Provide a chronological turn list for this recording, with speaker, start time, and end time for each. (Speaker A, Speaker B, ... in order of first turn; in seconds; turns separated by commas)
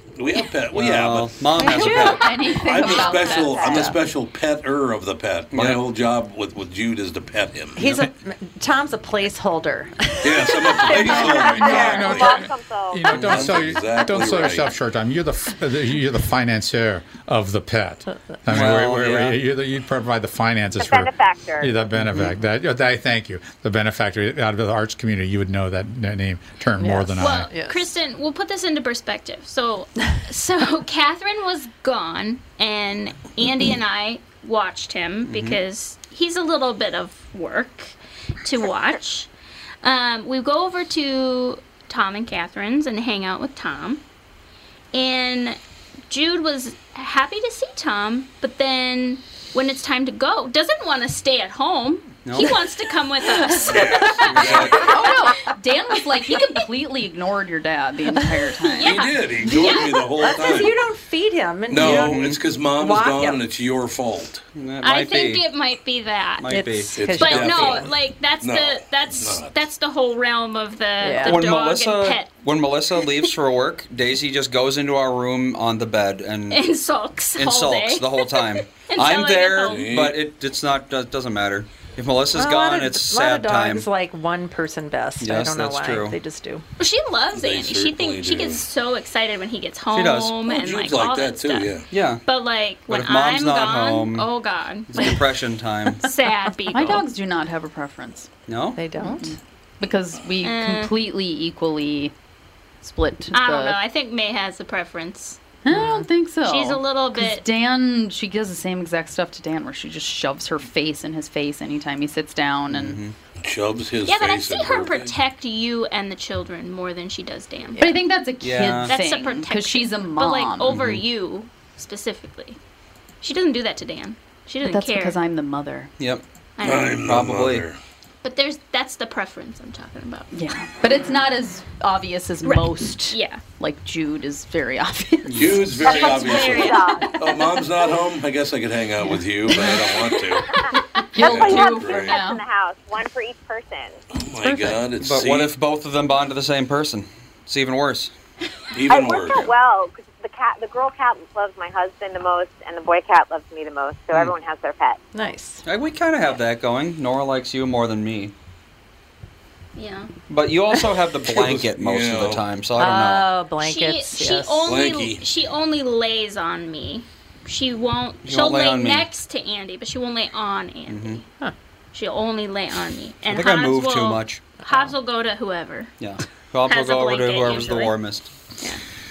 Speaker A: 0.1-1.3, Speaker B: 0.7-2.3, Speaker C: 1.5-2.2, Speaker D: 1.7-4.0, Speaker A: 2.6-7.8, Speaker E: 2.7-3.9, Speaker B: 5.5-5.8, Speaker C: 7.8-12.3, Speaker A: 10.2-12.4, Speaker E: 10.8-13.3, Speaker F: 11.6-27.5, Speaker A: 13.1-14.7, Speaker B: 13.2-13.5, Speaker C: 18.1-18.7, Speaker B: 18.5-19.4, Speaker E: 20.8-21.8, Speaker C: 26.8-27.9, Speaker G: 27.2-39.3, Speaker B: 35.2-35.6, Speaker G: 39.8-44.0, Speaker G: 44.9-55.1, Speaker B: 52.2-52.6, Speaker A: 53.7-54.7, Speaker B: 54.3-54.8, Speaker D: 54.7-59.0, Speaker G: 58.6-60.1, Speaker A: 58.8-60.8, Speaker C: 59.5-63.4, Speaker A: 61.7-64.4, Speaker B: 61.7-62.4, Speaker B: 64.5-65.4, Speaker G: 64.8-66.6, Speaker B: 66.4-67.0, Speaker C: 66.5-67.9, Speaker A: 67.0-69.7, Speaker G: 67.1-72.3, Speaker C: 71.0-71.4, Speaker B: 71.2-76.7, Speaker G: 76.5-79.9, Speaker B: 77.3-83.8, Speaker A: 79.7-80.2, Speaker C: 82.3-86.6, Speaker B: 85.2-86.2, Speaker G: 86.8-95.2, Speaker A: 87.3-88.6, Speaker B: 89.9-90.4, Speaker A: 90.5-91.9, Speaker B: 91.9-92.2, Speaker B: 92.9-94.3, Speaker B: 94.9-96.1, Speaker G: 96.0-97.1, Speaker D: 96.7-98.3, Speaker B: 98.5-98.8, Speaker C: 98.7-99.4, Speaker D: 99.0-102.1, Speaker G: 100.4-100.9, Speaker D: 102.8-103.8, Speaker G: 103.3-105.4, Speaker D: 105.6-113.0, Speaker C: 105.7-106.1, Speaker G: 106.4-107.5, Speaker B: 112.7-113.1, Speaker A: 113.4-115.1, Speaker G: 114.0-117.9, Speaker D: 117.8-120.8, Speaker B: 118.4-118.9, Speaker G: 118.9-122.6, Speaker B: 120.7-121.0, Speaker G: 123.2-125.2, Speaker D: 124.6-125.9, Speaker G: 126.6-127.0, Speaker A: 126.6-127.8, Speaker B: 126.9-127.7, Speaker G: 128.2-130.3, Speaker D: 130.3-136.0, Speaker G: 132.4-133.4, Speaker B: 135.2-135.6, Speaker A: 135.3-140.5, Speaker G: 135.8-137.1, Speaker E: 135.9-137.1, Speaker G: 140.0-140.5, Speaker D: 141.1-142.4, Speaker A: 141.2-142.2, Speaker E: 141.2-144.0, Speaker A: 144.1-145.5, Speaker B: 145.0-148.1, Speaker A: 148.7-149.5, Speaker E: 148.9-155.0, Speaker C: 155.1-155.6, Speaker B: 155.6-158.3, Speaker G: 159.7-160.1, Speaker B: 160.3-163.3, Speaker A: 161.2-162.4, Speaker C: 162.8-164.7, Speaker G: 163.6-171.2, Speaker A: 164.6-165.2, Speaker B: 168.2-169.1, Speaker B: 170.9-171.2, Speaker G: 171.9-175.9, Speaker B: 173.3-174.4, Speaker B: 176.0-178.3, Speaker G: 176.7-178.0